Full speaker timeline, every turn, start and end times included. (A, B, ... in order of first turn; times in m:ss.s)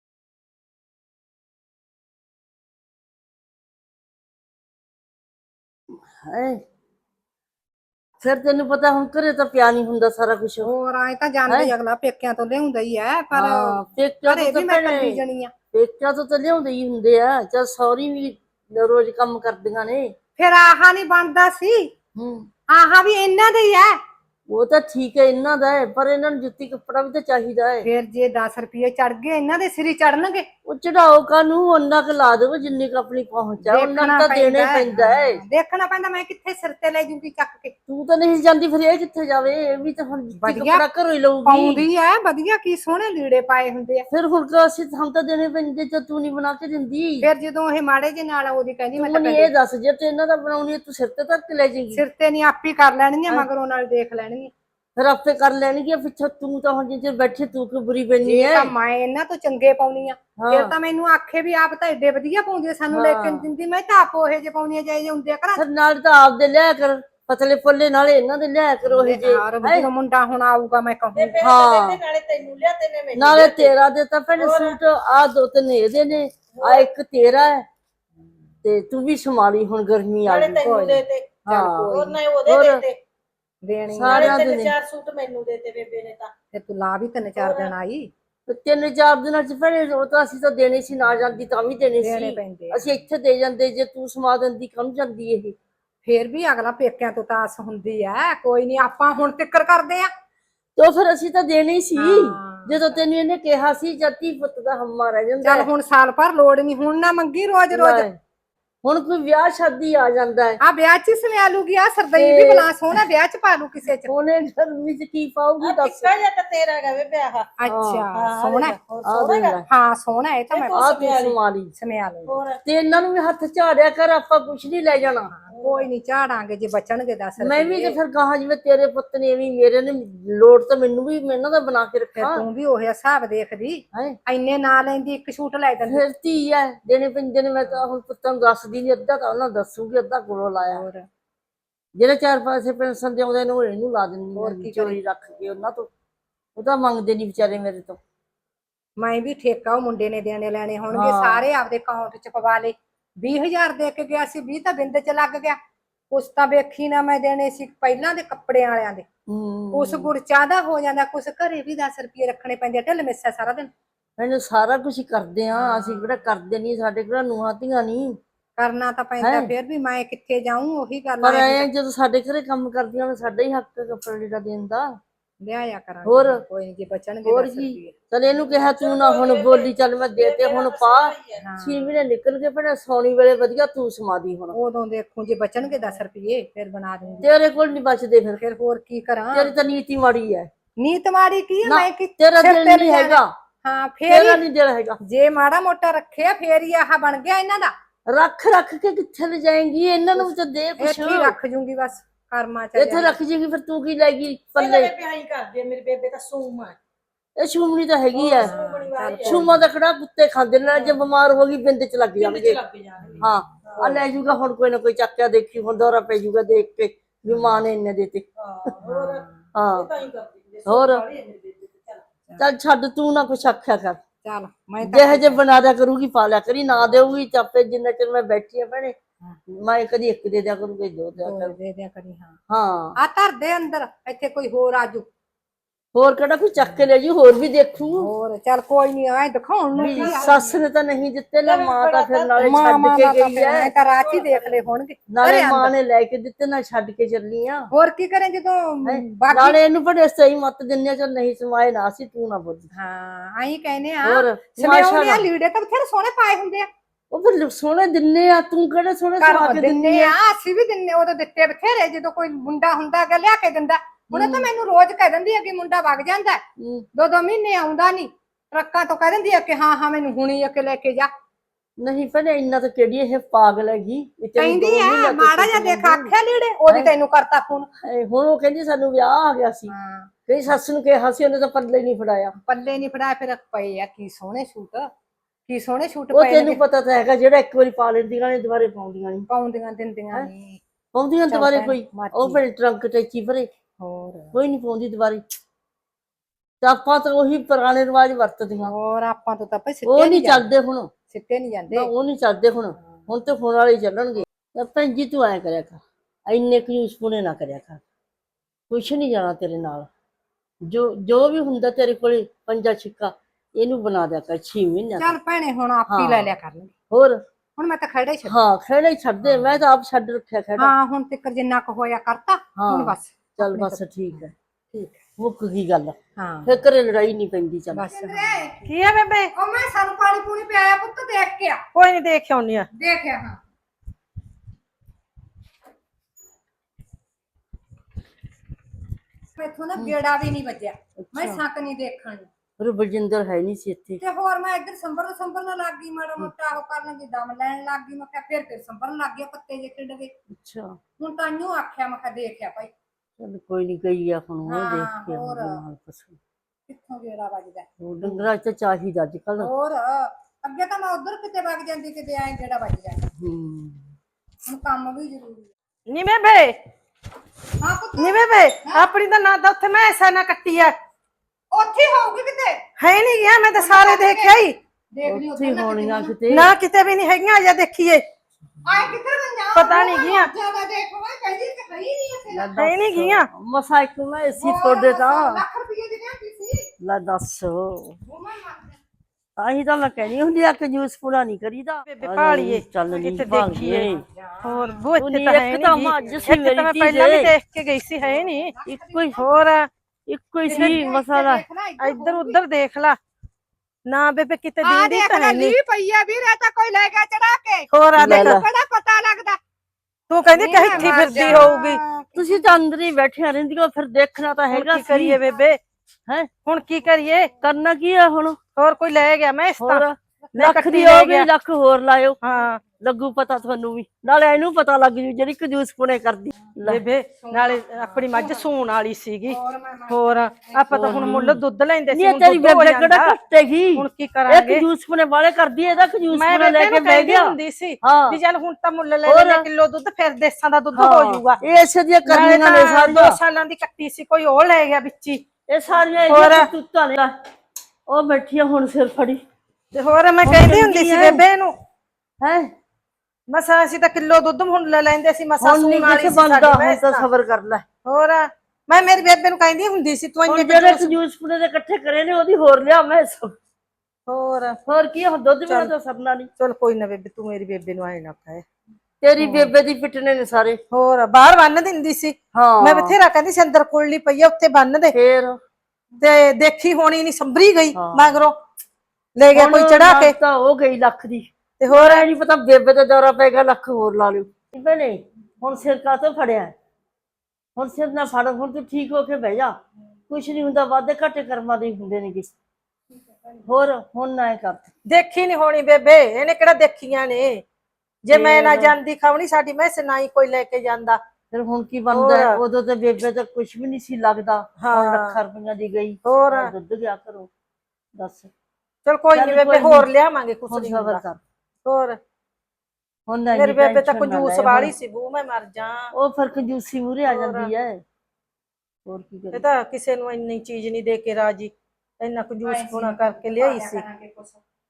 0:05.9-0:06.6 A
0:08.2-0:10.7 A
0:10.6-0:15.5 B
0:13.3-0:15.2 A
0:15.7-0:20.1 A
0:20.4-0:21.9 B
0:22.2-0:22.5 A
0:22.7-0:24.0 B
0:24.5-0:27.9 A
0:27.8-0:30.5 B
0:30.7-0:35.4 A
0:33.6-0:37.7 B
0:37.9-0:41.9 A
0:40.4-0:40.8 B
0:41.5-0:44.1 B
0:44.1-0:47.3 A
0:47.2-0:49.5 B
0:49.0-0:52.0 A
0:51.9-0:54.5 B
0:55.0-0:58.7 A
0:58.2-1:05.6 B
1:00.4-1:00.7 A
1:02.9-1:03.5 A
1:05.5-1:09.9 A
1:08.9-1:11.4 B
1:11.2-1:13.7 C
1:11.4-1:12.0 A
1:13.1-1:17.7 A
1:14.4-1:14.8 C
1:16.6-1:16.9 C
1:18.6-1:20.8 A
1:20.3-1:23.0 C
1:20.6-1:21.0 B
1:21.5-1:22.8 A
1:23.6-1:24.4 B
1:23.9-1:24.8 A
1:24.0-1:26.3 C
1:26.5-1:28.1 B
1:27.4-1:27.7 C
1:28.5-1:35.6 A
1:32.0-1:33.0 B
1:36.1-1:40.1 B
1:40.8-1:45.7 A
1:42.0-1:43.0 B
1:45.4-1:48.1 B
1:47.7-1:48.2 A
1:48.8-1:50.6 A
1:50.6-1:54.1 B
1:52.1-1:52.7 A
1:54.0-1:56.1 A
1:55.6-1:57.6 C
1:57.6-1:58.8 B
1:57.7-1:58.1 A
1:58.1-1:59.6 C
1:59.0-1:59.6 A
1:59.7-2:00.8 B
2:00.5-2:01.4 C
2:00.7-2:01.7 A
2:01.8-2:02.4 B
2:02.3-2:02.6 C
2:02.6-2:05.3 A
2:05.3-2:08.0 B
2:05.5-2:05.9 C
2:07.4-2:12.5 A
2:12.2-2:16.0 B
2:15.9-2:20.9 A
2:20.6-2:21.1 B
2:22.0-2:25.9 A
2:24.4-2:25.0 B
2:26.6-2:28.0 A
2:29.0-2:35.6 B
2:30.9-2:31.4 A
2:36.1-2:39.1 B
2:39.3-2:40.1 A
2:39.7-2:43.7 B
2:44.2-2:48.2 A
2:45.5-2:46.2 B
2:48.6-2:51.7 B
2:49.2-2:49.5 A
2:51.2-2:55.0 A
2:55.4-2:58.0 B
2:56.0-2:56.4 A
2:57.2-3:04.6 A
2:58.5-3:01.4 C
3:01.4-3:02.0 B
3:04.5-3:07.3 B
3:07.2-3:08.4 A
3:08.4-3:09.5 B
3:09.3-3:10.5 A
3:10.8-3:14.4 B
3:11.6-3:13.3 A
3:14.1-3:15.0 A
3:15.0-3:17.7 B
3:18.1-3:21.4 A
3:20.8-3:23.2 B
3:22.8-3:24.9 A
3:24.6-3:26.8 C
3:27.4-3:28.6 A
3:28.2-3:29.4 C
3:28.4-3:29.6 B
3:29.2-3:32.6 A
3:32.2-3:34.0 C
3:33.1-3:34.0 B
3:33.2-3:38.7 A
3:37.3-3:37.6 B
3:38.4-3:42.0 C
3:38.8-3:39.4 B
3:39.5-3:39.9 A
3:40.7-3:41.0 A
3:42.4-3:44.0 A
3:44.2-3:45.4 B
3:44.8-3:49.0 A
3:49.5-3:51.6 A
3:51.2-3:52.4 B
3:52.5-3:53.0 A
3:53.0-3:55.1 B
3:55.9-3:58.1 A
3:58.0-4:00.6 B
3:59.8-4:00.5 C
3:59.8-4:03.7 A
4:01.4-4:02.5 C
4:02.4-4:05.7 B
4:03.5-4:04.6 C
4:05.1-4:07.7 A
4:07.7-4:09.6 B
4:08.8-4:12.7 A
4:12.7-4:16.7 B
4:14.0-4:15.3 A
4:17.1-4:20.2 A
4:19.2-4:26.4 B
4:24.1-4:24.5 A
4:26.6-4:26.9 A
4:27.0-4:31.1 B
4:31.8-4:36.1 A
4:34.4-4:37.7 B
4:37.8-4:39.7 A
4:39.7-4:40.1 B
4:40.3-4:42.3 A
4:42.4-4:44.9 B
4:45.5-4:46.6 B
4:46.1-4:49.3 A
4:49.3-4:50.6 B
4:50.9-4:53.5 A
4:51.3-4:52.4 B
4:53.8-4:54.4 B
4:54.3-4:55.2 A
4:56.6-4:58.7 A
4:58.6-5:00.5 B
4:59.8-5:00.9 A
5:01.1-5:01.9 B
5:01.7-5:07.8 A
5:08.7-5:09.9 A
5:10.6-5:15.2 A
5:15.0-5:16.7 B
5:15.9-5:16.3 A
5:16.9-5:17.2 A
5:17.6-5:18.4 B
5:18.2-5:20.8 A
5:19.3-5:19.6 B
5:20.6-5:24.2 B
5:22.6-5:24.3 A
5:24.7-5:25.0 B
5:25.2-5:28.3 A
5:26.2-5:26.5 B
5:27.7-5:28.7 B
5:28.6-5:29.3 C
5:29.4-5:31.6 B
5:31.8-5:32.7 C
5:32.7-5:33.4 B
5:39.4-5:42.3 B
5:41.0-5:41.4 A
5:42.6-5:44.0 A
5:44.0-5:50.1 B
5:50.3-5:50.8 A
5:51.0-5:52.7 B
5:53.2-5:56.2 A
5:54.5-5:55.6 B
5:56.7-5:58.2 B
5:57.8-5:59.5 A
5:59.4-6:03.1 B
6:03.2-6:04.0 A
6:04.5-6:05.5 B
6:05.9-6:06.6 C
6:07.6-6:08.8 B
6:08.0-6:10.8 C
6:11.5-6:12.6 B
6:12.8-6:14.6 C
6:13.6-6:14.4 B
6:14.9-6:16.1 B
6:15.1-6:16.5 A
6:16.3-6:18.0 C
6:18.6-6:22.6 B
6:19.6-6:20.3 C
6:22.3-6:25.4 A
6:22.6-6:23.3 C
6:24.4-6:26.7 B
6:26.8-6:28.0 A
6:28.0-6:28.8 B
6:29.4-6:34.0 A
6:31.9-6:33.9 C
6:33.8-6:34.9 B
6:34.4-6:38.5 C
6:35.0-6:37.3 A
6:38.1-6:39.2 B
6:38.7-6:39.2 A
6:39.2-6:39.7 C
6:40.1-6:41.4 A
6:40.5-6:42.4 B
6:40.5-6:40.8 C
6:41.8-6:43.0 C
6:43.9-6:45.6 C
6:44.6-6:49.4 B
6:47.7-6:48.4 C
6:48.0-6:48.4 A
6:50.1-6:51.8 C
6:50.3-6:52.4 B
6:50.7-6:51.5 A
6:52.2-6:55.2 A
6:54.5-6:55.6 C
6:56.5-6:57.3 C
6:57.4-6:58.4 A
6:58.6-7:01.3 C
6:59.6-7:02.2 A
7:02.2-7:02.6 C
7:02.8-7:06.8 A
7:06.7-7:09.4 C
7:07.2-7:08.5 B
7:09.3-7:11.1 B
7:09.9-7:13.2 C
7:10.7-7:18.2 A
7:13.8-7:14.7 C
7:16.1-7:21.4 C
7:19.1-7:19.5 A
7:20.7-7:23.2 A
7:22.1-7:25.2 C
7:25.5-7:27.1 A
7:26.1-7:26.5 C
7:27.9-7:29.2 A
7:29.7-7:31.5 C
7:30.2-7:31.2 A
7:32.2-7:32.5 A
7:33.3-7:37.0 C
7:35.4-7:37.7 A
7:37.8-7:41.0 C
7:40.3-7:43.4 A
7:44.1-7:44.6 C
7:44.7-7:46.3 A
7:46.4-7:48.4 C
7:49.0-7:50.6 A
7:49.2-7:49.5 C
7:50.7-7:55.0 C
7:52.3-7:53.0 A
7:54.9-7:55.4 A
7:56.0-7:58.4 C
7:57.8-7:58.2 A
7:59.2-8:00.2 C
7:59.3-8:06.6 A
8:01.6-8:02.1 C
8:07.6-8:09.6 A
8:10.1-8:12.3 A
8:13.4-8:14.7 A
8:14.9-8:17.4 C
8:18.0-8:21.0 C
8:18.1-8:18.8 A
8:21.3-8:27.3 A
8:21.9-8:22.4 C
8:24.6-8:25.2 C
8:26.0-8:26.5 C
8:28.0-8:28.3 A
8:28.9-8:31.0 C
8:29.1-8:29.9 A
8:30.5-8:31.2 A
8:31.6-8:32.0 C
8:33.1-8:34.7 A
8:33.3-8:35.9 C
8:35.9-8:37.8 A
8:37.1-8:37.5 C
8:38.9-8:39.4 A
8:39.3-8:43.8 C
8:42.4-8:44.4 B